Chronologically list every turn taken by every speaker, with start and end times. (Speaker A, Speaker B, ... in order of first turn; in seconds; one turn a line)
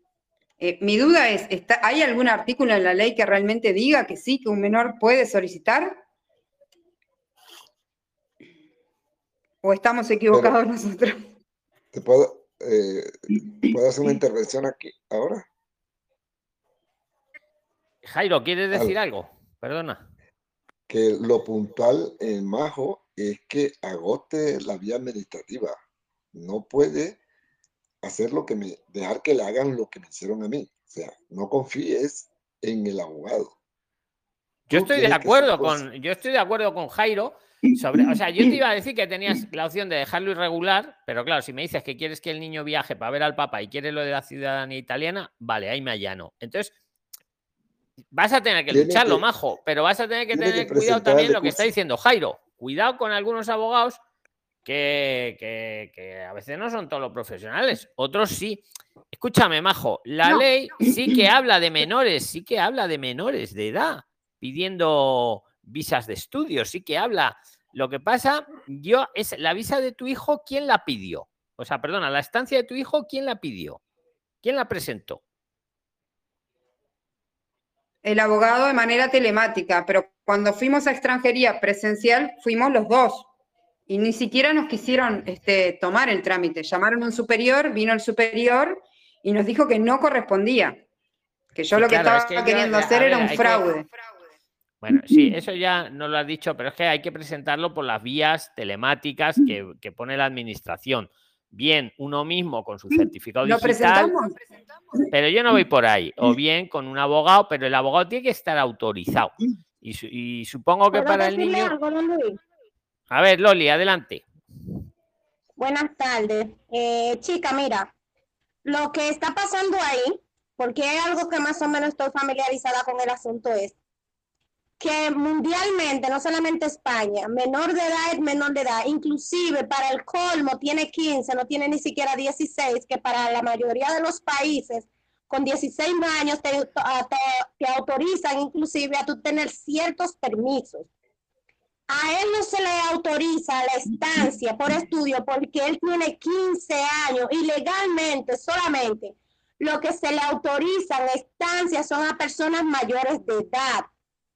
Speaker A: 0.6-6.0
Speaker A: 9.6-11.2
Speaker B: 11.9-15.5
Speaker C: 18.1-20.0
Speaker B: 20.9-25.8
Speaker B: 26.3-27.2
Speaker B: 28.0-33.6
Speaker C: 34.7-46.7
Speaker B: 34.7-35.8
Speaker C: 48.1-54.0
Speaker B: 48.7-49.2
Speaker B: 50.3-51.7
Speaker C: 54.7-73.8
Speaker C: 74.4-75.2
Speaker A: 78.0-83.3
Speaker A: 83.9-90.8
Speaker A: 91.5-93.9
Speaker C: 91.7-93.7
Speaker C: 94.8-104.1
Speaker A: 103.0-104.4
Speaker C: 105.1-111.7
Speaker D: 110.9-112.4
Speaker C: 113.1-114.2
Speaker D: 115.6-117.9
Speaker D: 118.7-123.8
Speaker D: 124.8-140.9
Speaker D: 141.9-153.9